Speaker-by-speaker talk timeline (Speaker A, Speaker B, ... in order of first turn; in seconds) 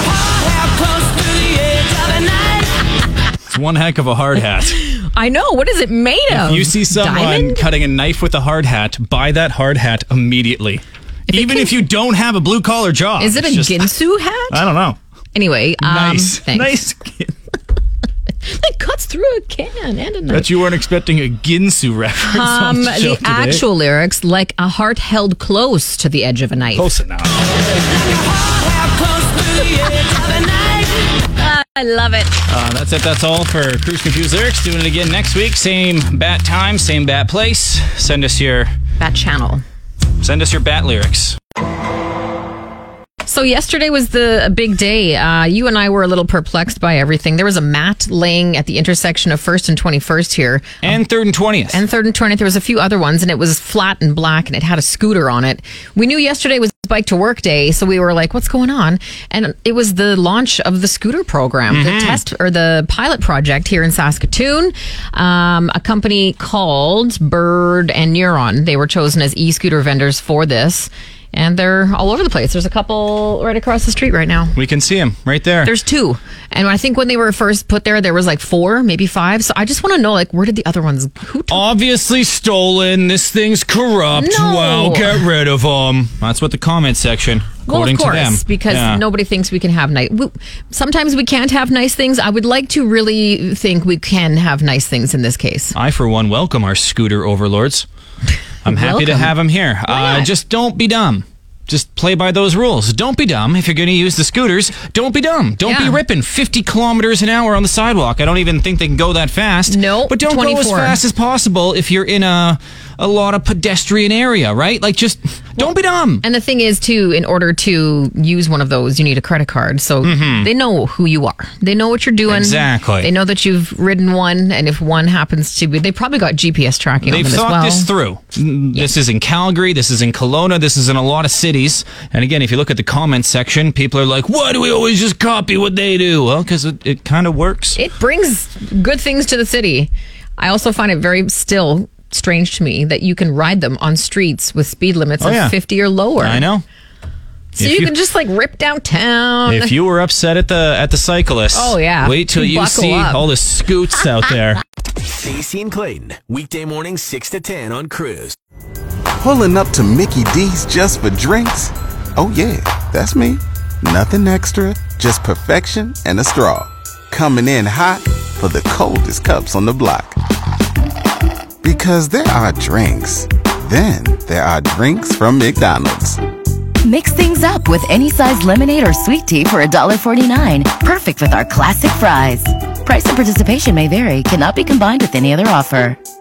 Speaker A: 0.2-1.8, 3.5-4.8, 6.3-13.9, 14.5-15.0, 15.8-17.3, 20.3-23.6, 26.8-27.4, 32.5-38.7, 40.2-41.4, 50.8-51.8, 61.7-62.2, 74.5-75.7, 81.5-89.0, 95.7-97.9, 98.7-116.2, 120.0-120.5, 122.3-123.1, 127.0-137.8, 145.2-145.6, 146.2-146.6, 147.6-147.9, 149.5-154.6
Speaker B: 1.2-2.8, 4.8-7.7, 11.3-11.8, 13.2-14.6, 15.3-16.8, 18.4-20.5, 22.2-26.9, 27.7-32.4, 39.0-39.6, 43.3-50.9, 51.7-74.6, 75.7-81.7, 84.1-85.3, 87.7-95.7, 98.7-99.3, 99.9-100.3, 105.7-106.0, 109.7-111.0, 116.2-127.9, 137.8-146.5, 147.6-149.7, 151.5-153.2
Speaker C: 155.2-158.4
Speaker D: 159.2-170.2, 171.6-176.2
Speaker E: 176.8-186.0